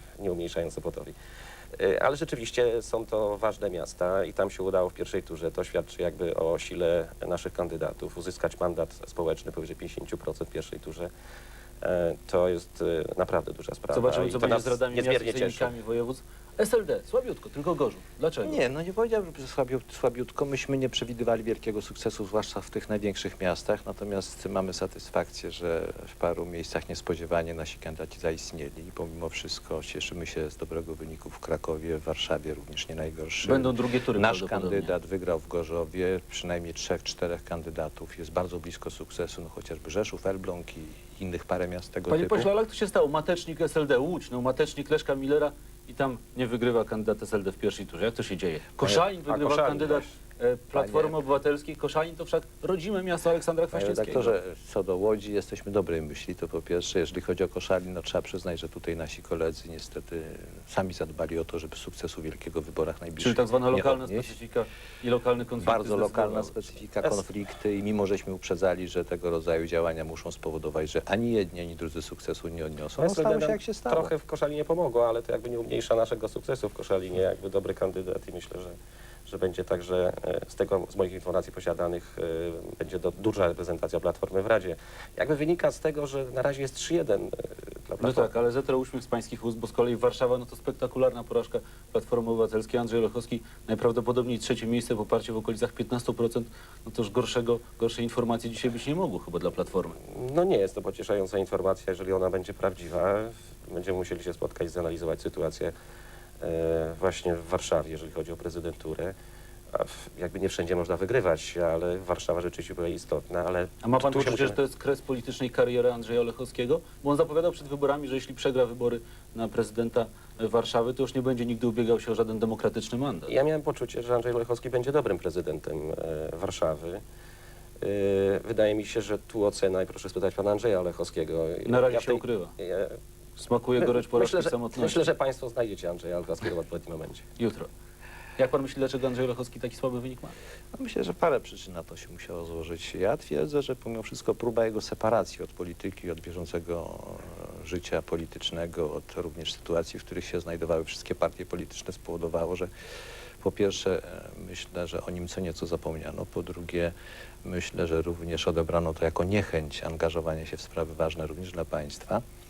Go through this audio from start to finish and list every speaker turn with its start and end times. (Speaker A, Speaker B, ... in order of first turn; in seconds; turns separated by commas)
Speaker A: 0.2-1.1, Speaker A: 1.7-11.1, Speaker A: 11.8-15.7, Speaker B: 13.9-18.6, Speaker C: 18.4-42.5, Speaker B: 33.4-34.9, Speaker B: 42.1-54.4, Speaker A: 48.8-50.1, Speaker C: 50.7-51.2, Speaker C: 53.7-64.3, Speaker B: 63.2-66.7, Speaker C: 65.6-74.1, Speaker A: 73.0-88.3, Speaker B: 88.0-100.0, Speaker A: 100.0-105.7, Speaker A: 106.4-109.1, Speaker A: 109.7-114.6, Speaker B: 113.8-123.3, Speaker A: 123.3-127.0, Speaker A: 127.8-133.0, Speaker B: 131.7-132.5, Speaker B: 133.4-135.1, Speaker A: 133.8-137.3, Speaker B: 137.4-137.7, Speaker B: 138.4-140.3, Speaker C: 140.7-152.7, Speaker C: 153.4-156.9, Speaker C: 157.4-162.2